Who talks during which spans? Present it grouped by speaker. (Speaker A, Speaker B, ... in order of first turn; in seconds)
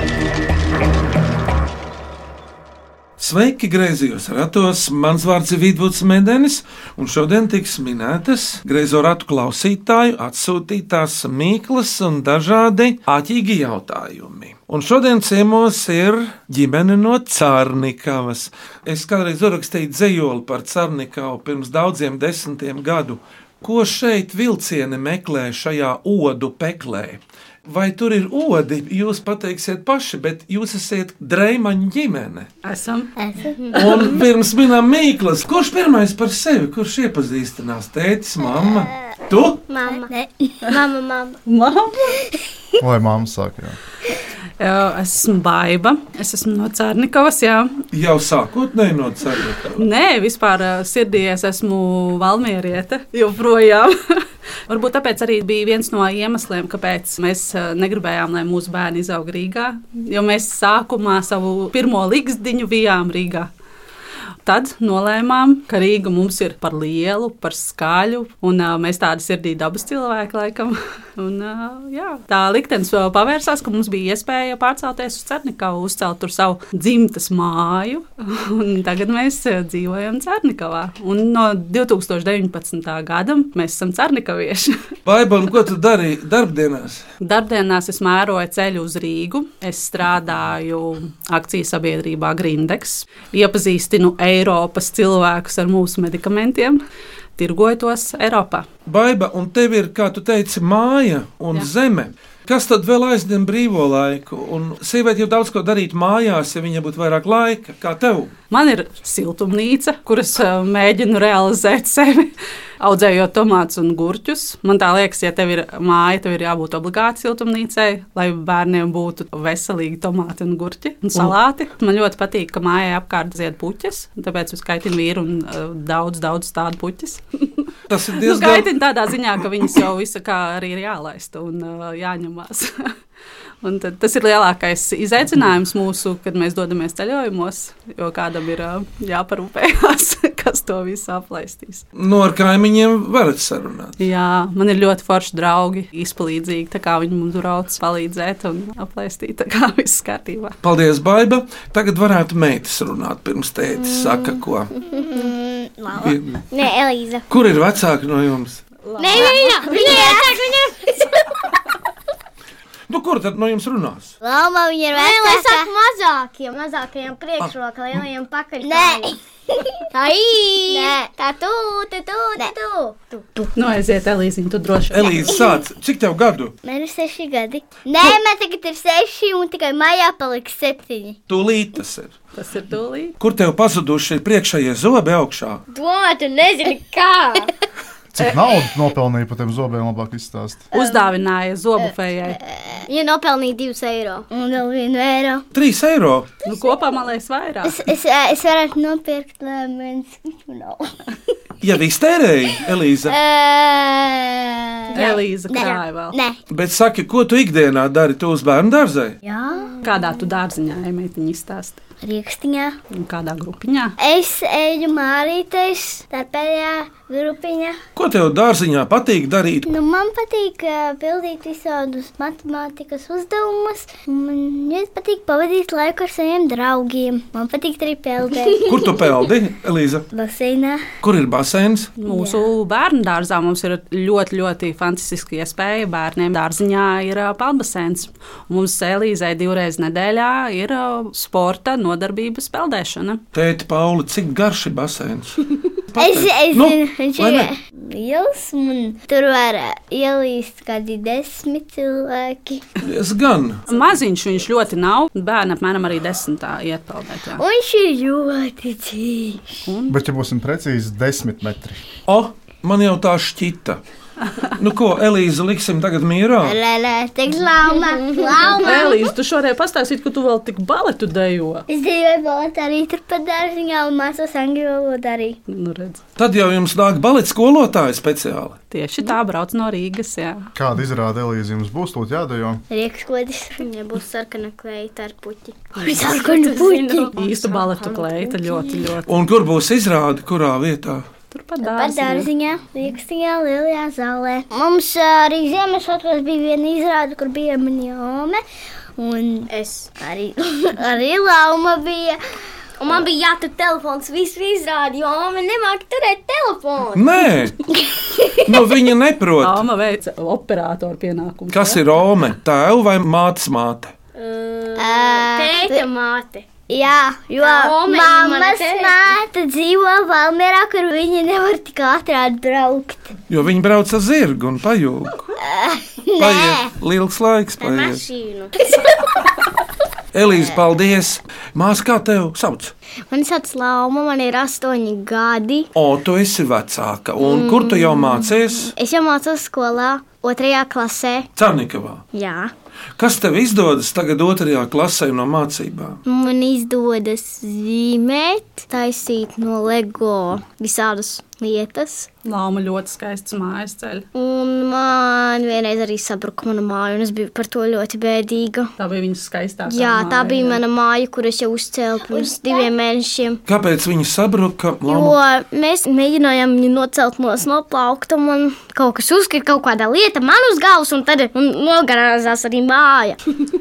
Speaker A: 3.2-32.5, 33.7-39.6, 47.9-49.9, 85.1-87.0, 98.9-108.3, 127.9-128.8, 141.9-144.0, 150.6-154.7, 156.0-156.4, 157.3-158.6, 162.9-164.1, 167.4-168.0, 174.9-176.5, 181.3-182.1, 183.2-185.6, 195.5-196.3, 201.6-203.2, 206.5-209.2, 218.0-219.7, 228.7-230.1, 231.0-231.9, 243.3-247.5, 252.8-253.7, 262.1-263.8, 264.6-266.6, 276.2-278.6, 289.1-291.1, 306.9-307.6, 308.5-309.6, 311.5-313.9, 323.3-325.3, 326.2-328.0, 330.1-332.7, 335.8-338.7, 341.4-342.0, 343.0-346.0, 363.5-365.2
Speaker B: 32.6-33.1, 33.7-34.1, 41.5-42.2, 44.6-47.8, 49.8-63.5, 64.5-84.8, 87.2-96.8, 97.4-98.7, 108.5-132.9, 133.6-141.8, 144.0-150.6, 158.8-160.0, 173.6-175.3, 182.4-183.2, 190.7-192.4, 196.4-197.8, 204.9-206.2, 209.8-211.8, 212.9-213.9, 232.0-243.2, 253.7-257.4, 259.7-260.0, 268.6-271.7, 275.5-276.0, 278.7-280.5, 287.2-289.1, 291.3-292.3, 309.4-311.8, 352.2-354.1, 358.8-360.6
Speaker C: 33.2-33.7, 38.5-39.1, 39.9-40.5, 155.1-156.2, 159.1-160.9, 164.2-165.7, 168.6-169.8, 170.7-171.1, 175.3-175.6, 176.6-181.2, 192.4-192.9, 194.3-195.4, 197.6-201.3, 202.6-206.4, 209.2-210.2, 212.0-212.8, 214.0-217.8, 219.7-228.9, 230.1-230.8, 232.1-232.4, 246.0-252.6, 257.4-259.5, 266.4-269.1, 271.7-275.4, 282.7-283.6, 285.8-287.1, 288.0-288.7, 291.6-298.4, 299.0-302.2, 307.9-308.7, 314.8-315.9, 316.7-323.1, 325.4-326.7, 328.6-328.9, 362.1-362.8
Speaker D: 39.7-40.1, 40.6-41.4, 154.9-155.3, 156.5-157.3, 159.0-161.1, 164.9-169.2, 169.9-173.4, 185.7-187.5, 192.9-194.3, 267.7-268.9, 283.6-288.0, 299.5-299.9, 302.8-307.3, 314.1-316.5, 317.4-319.1, 327.6-328.5, 333.1-335.7, 337.2-341.3, 342.1-342.5, 346.1-352.1, 354.1-358.7, 359.7-363.4, 364.9-373.2
Speaker E: 42.8-43.8, 188.1-190.7, 259.9-261.8, 280.6-282.6